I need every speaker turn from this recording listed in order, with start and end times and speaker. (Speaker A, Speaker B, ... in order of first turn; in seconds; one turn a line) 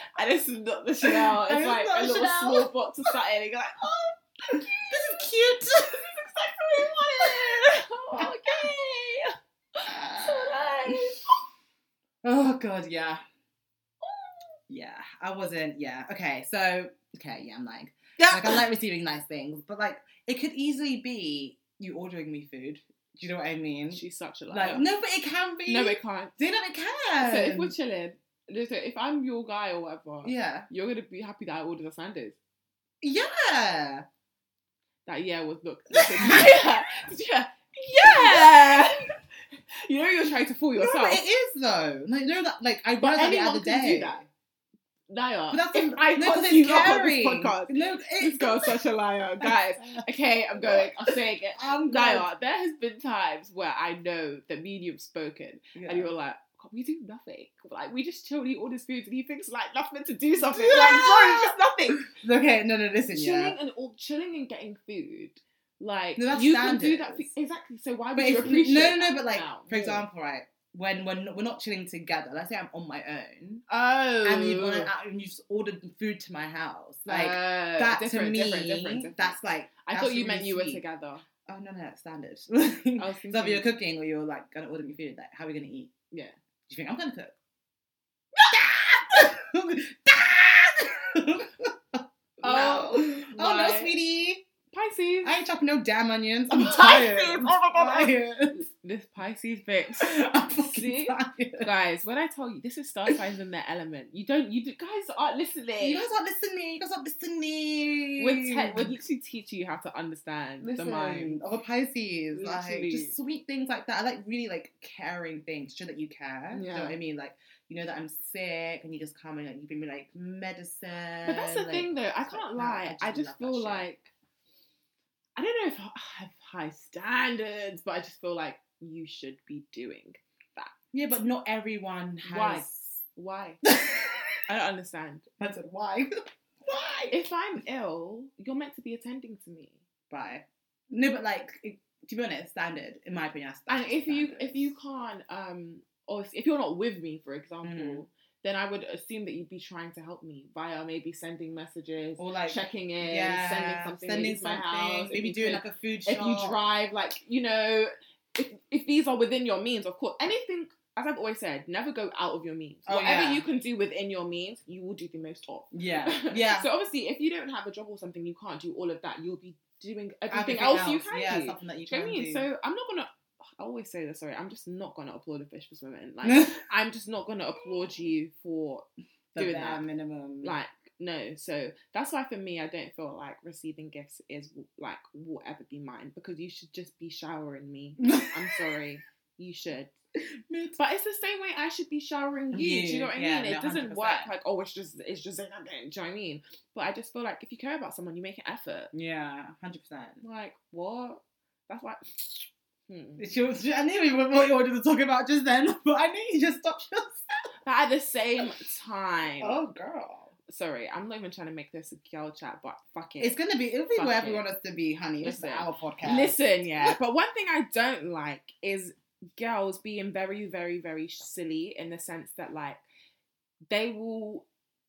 Speaker A: 0.1-5.2
Speaker B: 1.0-2.7
Speaker B: 4.5-6.1
Speaker A: 5.9-11.4
Speaker B: 6.8-8.7
Speaker B: 9.9-11.2
Speaker B: 12.2-13.2
Speaker A: 14.0-14.5
Speaker B: 14.7-27.7
Speaker A: 18.2-18.6
Speaker A: 23.9-24.9
Speaker A: 25.7-26.4
Speaker A: 27.2-32.4
Speaker B: 30.2-30.7
Speaker B: 33.0-34.0
Speaker A: 35.0-41.2
Speaker B: 35.9-36.7
Speaker B: 37.9-38.9
Speaker B: 40.8-44.2
Speaker A: 43.0-44.2
Speaker A: 45.1-62.1
Speaker B: 45.5-48.8
Speaker B: 49.4-50.0
Speaker B: 50.6-52.2
Speaker B: 55.7-56.1
Speaker B: 60.4-61.5
Speaker B: 62.0-63.6
Speaker A: 63.1-70.0
Speaker B: 66.2-67.3
Speaker B: 68.1-73.6
Speaker A: 73.7-74.9
Speaker B: 74.2-80.8
Speaker A: 77.0-81.2
Speaker B: 81.5-85.9
Speaker A: 83.0-83.7
Speaker B: 86.7-87.3
Speaker B: 88.4-94.4
Speaker A: 92.4-94.0
Speaker A: 94.7-95.4
Speaker B: 95.2-98.6
Speaker A: 96.5-106.1
Speaker B: 100.0-101.7
Speaker B: 105.8-109.0
Speaker A: 108.2-111.4
Speaker B: 110.6-123.9
Speaker A: 112.3-113.2
Speaker A: 116.5-117.0
Speaker A: 121.2-124.1
Speaker A: 125.4-130.7
Speaker B: 130.9-132.8
Speaker A: 132.2-133.6
Speaker B: 133.7-134.4
Speaker A: 134.4-135.3
Speaker B: 135.4-137.2
Speaker A: 137.1-139.8
Speaker B: 140.1-144.7
Speaker A: 143.7-179.8
Speaker B: 147.6-148.0
Speaker B: 152.2-156.6
Speaker B: 162.9-163.4
Speaker B: 165.7-166.7
Speaker B: 170.3-172.4
Speaker B: 176.2-176.6
Speaker B: 179.3-180.6
Speaker A: 180.4-189.9
Speaker B: 188.0-188.4
Speaker B: 190.5-190.8
Speaker A: 190.8-198.9
Speaker B: 192.5-194.3
Speaker B: 198.9-200.2
Speaker A: 200.2-203.2
Speaker B: 203.2-207.2
Speaker A: 207.6-209.6
Speaker B: 209.4-210.3
Speaker A: 210.5-213.4
Speaker B: 213.2-216.9
Speaker A: 213.9-214.4
Speaker A: 215.2-222.8
Speaker A: 223.7-224.4